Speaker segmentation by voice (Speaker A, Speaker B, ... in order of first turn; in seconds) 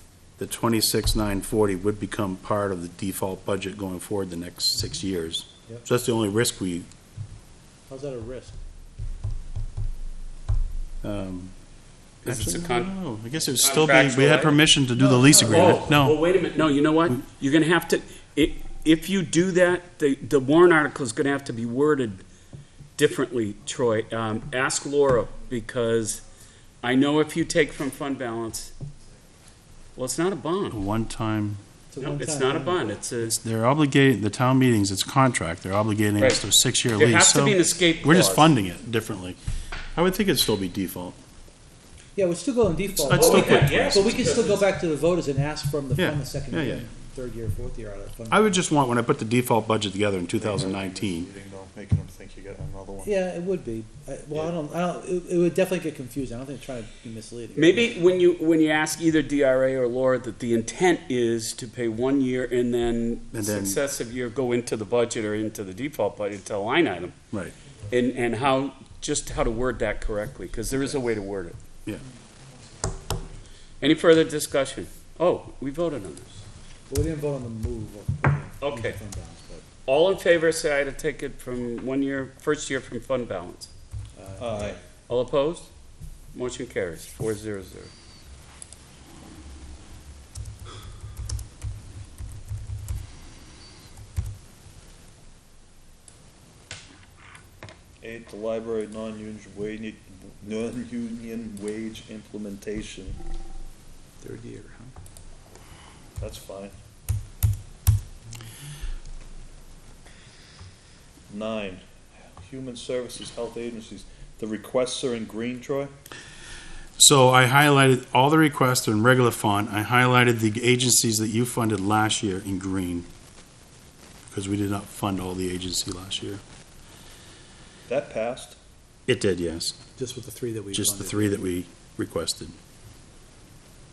Speaker A: 0.4-6.9, 11.0-11.6, 12.2-16.2, 30.7-31.6, 33.3-39.4, 39.9-41.2, 42.9-44.5, 46.0-46.9, 48.3-51.3, 63.3-63.8, 117.0-123.1, 124.3-126.4, 129.1-129.8, 130.7-132.6
Speaker B: 7.9-8.6, 14.9-16.1, 31.9-32.9, 42.1-48.6, 53.0-58.0, 76.9-79.6, 84.2-84.8, 104.2-104.9, 130.0-131.5
Speaker C: 12.2-13.0, 13.6-14.6, 15.4-22.2, 23.0-26.2, 26.8-28.7, 29.9-30.8, 32.0-33.4, 37.0-38.5, 43.1-44.7, 57.5-67.2, 67.9-71.6, 73.8-76.4, 78.6-79.0, 79.8-83.7, 85.1-85.7, 86.3-87.9
Speaker D: 50.3-53.1, 84.4-84.8, 98.0-103.2, 106.2-106.8, 111.3-115.9, 127.9-128.6